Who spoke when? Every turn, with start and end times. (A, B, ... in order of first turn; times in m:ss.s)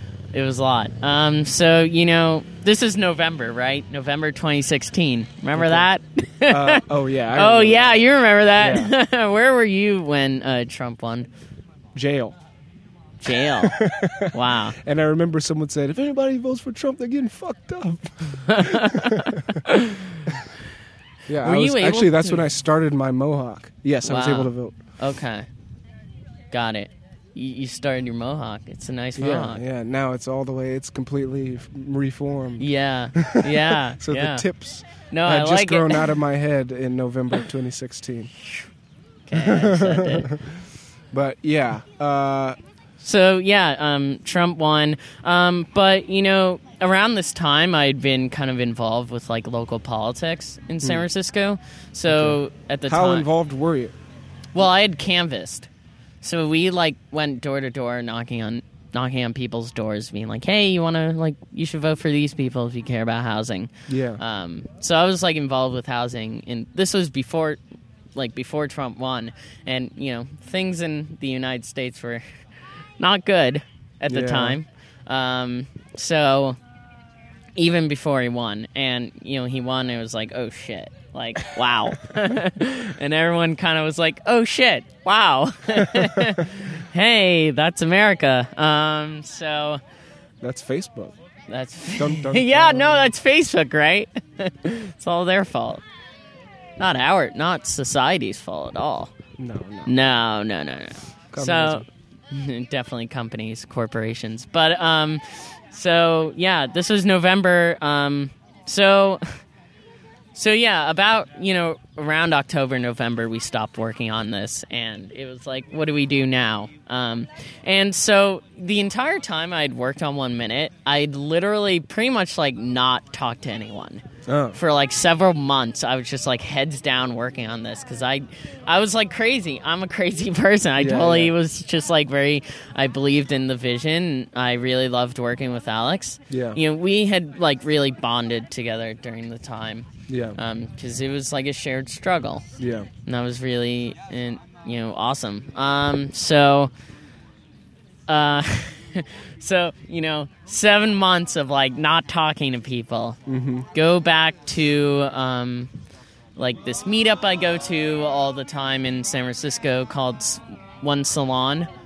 0:00.3-0:11.3 A
0:05.6-0:05.8 B
0:06.5-0:08.0 B
0:08.6-0:08.9 B
0:11.9-0:12.4 B
0:13.2-0:13.8 A
0:13.3-0:19.6 B
0:14.3-0:14.8 A
0:18.4-0:20.2 A
0:21.3-0:24.7 B
0:21.4-0:22.4 A
0:24.0-0:25.5 A
0:26.5-0:29.6 A
0:29.2-0:38.3 B
0:32.6-0:34.4 A
0:35.1-0:36.1 A
0:39.3-0:40.3 A
0:39.3-0:40.5 B
0:41.1-0:42.6 B
0:43.0-0:53.3 A
0:52.1-0:53.9 B
0:54.5-0:55.7 A
0:56.2-1:07.6 A
1:03.9-1:04.2 B
1:08.1-1:12.2 A
1:13.0-1:16.6 A
1:14.1-1:14.6 B
1:17.6-1:29.8 A
1:25.8-1:26.3 B
1:30.4-1:31.1 B
1:31.5-1:35.8 A
1:31.9-1:33.1 B
1:36.8-1:39.1 A
1:39.4-1:39.9 B
1:39.8-1:49.4 A
1:41.3-1:41.8 B
1:50.3-2:04.0 A
2:04.3-2:04.6 B
2:04.5-2:22.4 A
2:10.8-2:11.3 B
2:16.3-2:16.6 B
2:20.1-2:20.4 B
2:22.6-2:22.9 B
2:23.0-2:26.7 A
2:28.1-2:33.2 A
2:33.3-2:33.7 B
2:33.7-2:35.7 A
2:36.4-2:41.7 A